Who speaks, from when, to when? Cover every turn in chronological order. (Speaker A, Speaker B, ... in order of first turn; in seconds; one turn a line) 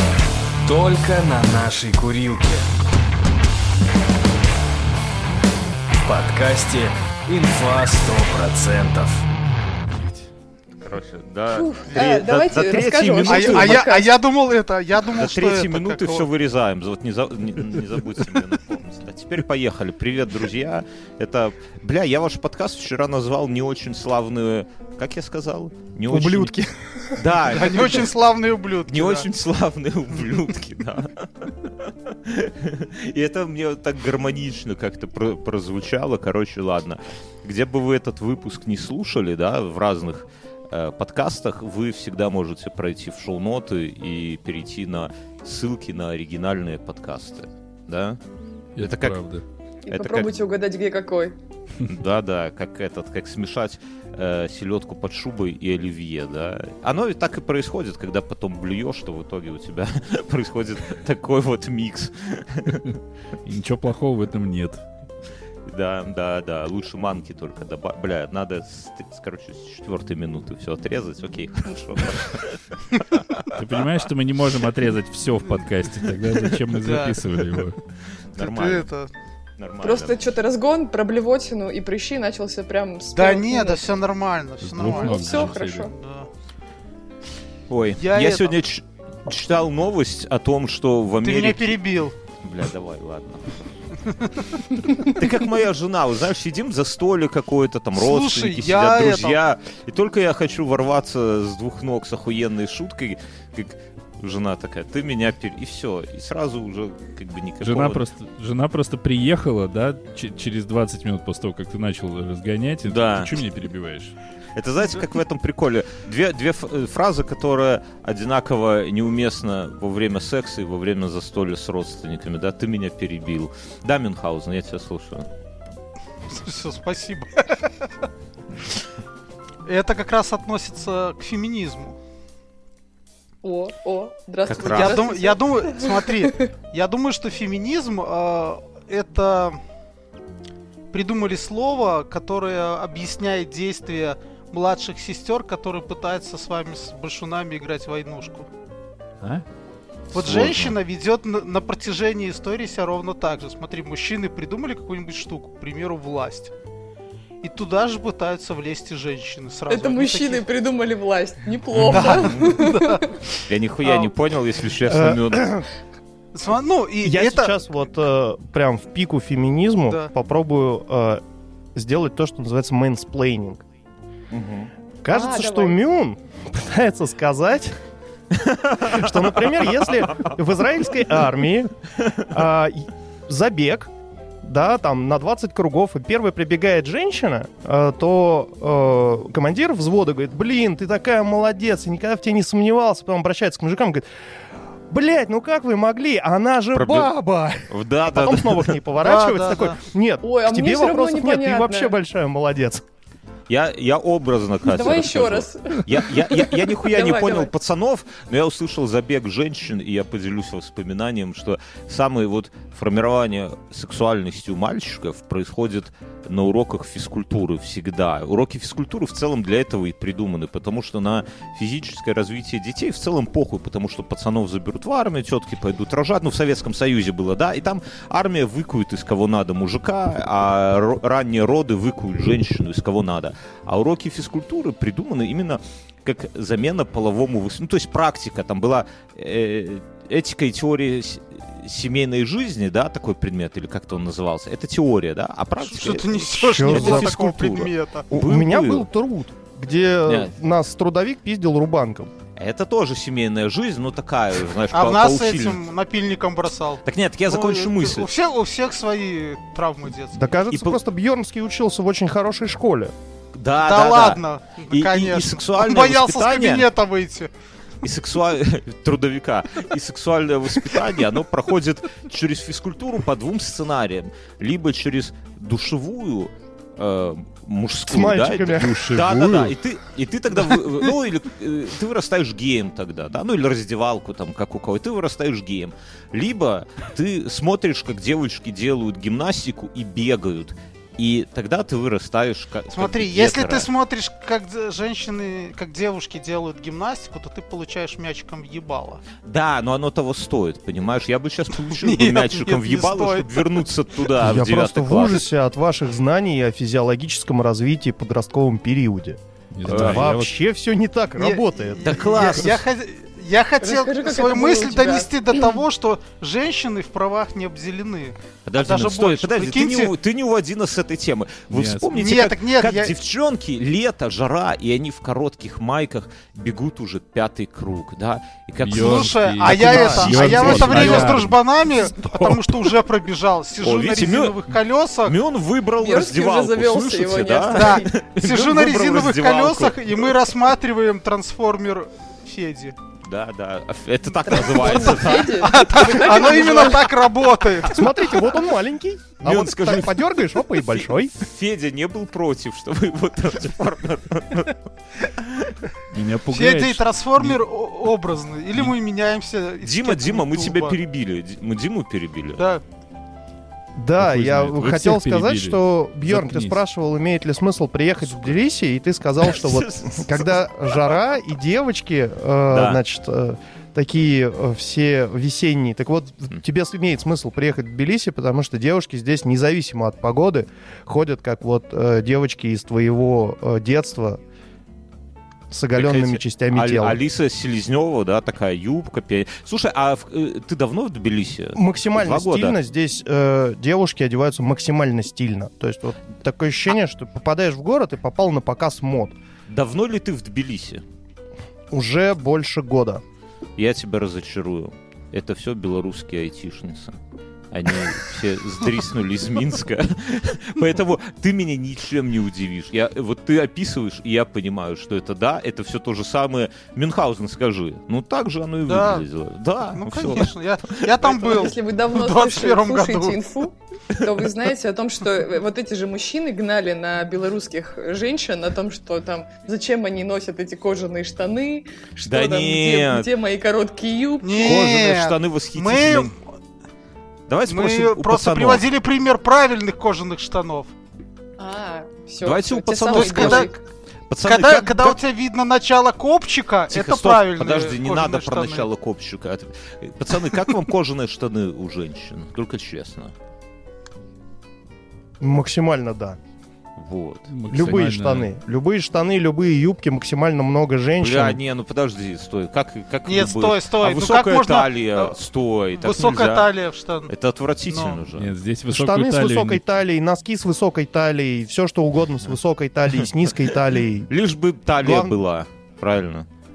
Speaker A: 0.6-2.7
Speaker A: 5.9-9.2
Speaker B: 10.8-13.9
Speaker C: 11.5-14.1
Speaker D: 13.3-16.3
Speaker B: 15.1-26.5
Speaker E: 26.1-27.2
Speaker B: 27.1-28.1
Speaker D: 27.4-29.3
Speaker B: 28.9-48.2
Speaker F: 48.8-49.4
Speaker B: 48.8-49.2
Speaker C: 49.9-51.4
Speaker B: 49.9-50.4
Speaker B: 51.8-63.0
Speaker F: 63.4-64.8
Speaker B: 65.7-73.4
Speaker F: 73.5-77.8
Speaker D: 76.8-77.2
Speaker B: 78.3-78.9
Speaker D: 78.4-79.1
Speaker B: 79.6-80.2
Speaker C: 79.8-83.8
Speaker D: 83.1-86.3
Speaker F: 84.6-85.9
Speaker C: 84.8-85.9
Speaker B: 87.7-91.8
Speaker D: 88.0-88.5
Speaker D: 91.2-92.1
Speaker B: 92.4-93.6
Speaker B: 95.0-108.0
Speaker D: 97.9-99.4
Speaker F: 107.6-114.1
Speaker B: 112.8-113.4
Speaker B: 114.5-125.3
Speaker D: 126.3-127.7
Speaker D: 129.6-132.0
Speaker C: 133.4-136.4
Speaker B: 134.4-135.0
Speaker D: 134.7-139.6
Speaker D: 140.9-148.5
Speaker B: 150.1-150.8
Speaker D: 150.1-156.5
Speaker D: 157.4-160.4
Speaker C: 159.7-163.2
Speaker B: 161.8-162.6
Speaker D: 161.9-163.0
Speaker B: 163.4-165.6
Speaker D: 163.8-164.1
Speaker E: 164.8-165.7
Speaker D: 166.3-167.6
Speaker E: 167.0-171.2
Speaker E: 171.7-173.6
Speaker B: 174.3-174.7
Speaker E: 175.0-177.8
Speaker C: 175.1-175.8
Speaker B: 178.3-179.1
Speaker E: 178.8-181.7
Speaker E: 182.3-183.9
Speaker E: 184.4-194.1
Speaker E: 194.9-202.8
Speaker B: 196.7-197.1
Speaker B: 197.7-198.8
Speaker D: 199.0-199.8
Speaker C: 200.2-201.9
Speaker B: 203.5-248.8
Speaker C: 204.7-207.5
Speaker D: 245.6-248.1
Speaker E: 246.5-247.2
Speaker E: 248.1-252.1
Speaker B: 250.1-250.3
Speaker B: 252.3-255.6
Speaker D: 254.7-260.2
Speaker B: 256.8-258.1
Speaker E: 260.1-262.9
Speaker B: 260.5-260.8
Speaker B: 263.3-266.7
Speaker D: 263.6-267.3
Speaker B: 267.8-293.7
Speaker E: 277.9-278.9
Speaker F: 278.5-279.5
Speaker D: 292.7-299.0
Speaker B: 299.2-305.2
Speaker D: 301.7-303.4
Speaker E: 304.2-312.6
Speaker F: 309.5-310.3
Speaker B: 309.6-310.1
Speaker D: 311.2-319.9
Speaker B: 311.9-312.6
Speaker C: 313.6-315.5
Speaker B: 318.4-331.3
Speaker F: 321.5-322.0
Speaker D: 321.9-322.9
Speaker F: 328.6-331.4
Speaker D: 328.7-335.1
Speaker B: 333.6-340.2
Speaker C: 335.8-337.9
Speaker D: 337.5-342.8
Speaker B: 343.0-346.6
Speaker C: 344.2-346.9
Speaker D: 344.7-347.9
Speaker E: 347.7-351.1
Speaker B: 349.2-355.6
Speaker F: 355.9-357.4
Speaker D: 356.3-360.8
Speaker B: 359.6-362.4
Speaker D: 362.4-362.6
Speaker E: 363.8-384.2
Speaker F: 364.0-366.6
Speaker B: 369.2-370.9
Speaker B: 372.5-372.8
Speaker E: 385.5-387.0
Speaker B: 385.8-392.6
Speaker E: 391.5-399.1
Speaker B: 399.5-400.8
Speaker E: 401.7-403.0
Speaker B: 403.6-407.0
Speaker B: 407.5-421.3
Speaker D: 418.7-419.1
Speaker D: 419.7-423.2
Speaker C: 421.0-434.7
Speaker B: 432.1-433.1
Speaker D: 434.2-436.2
Speaker B: 434.4-436.1
Speaker B: 437.3-438.6
Speaker D: 437.5-440.7
Speaker C: 441.4-443.6
Speaker B: 442.2-443.6
Speaker D: 442.9-443.5
Speaker B: 444.1-445.0
Speaker D: 444.2-448.7
Speaker B: 446.7-453.1
Speaker E: 455.2-456.2
Speaker B: 456.8-457.3
Speaker F: 457.3-458.3
Speaker E: 457.5-461.4
Speaker B: 461.0-466.5
Speaker D: 463.1-465.1
Speaker D: 465.8-467.1
Speaker B: 467.1-468.3
Speaker D: 467.7-468.0
Speaker F: 468.1-469.6
Speaker E: 468.7-474.1
Speaker B: 474.1-476.3
Speaker E: 474.8-475.2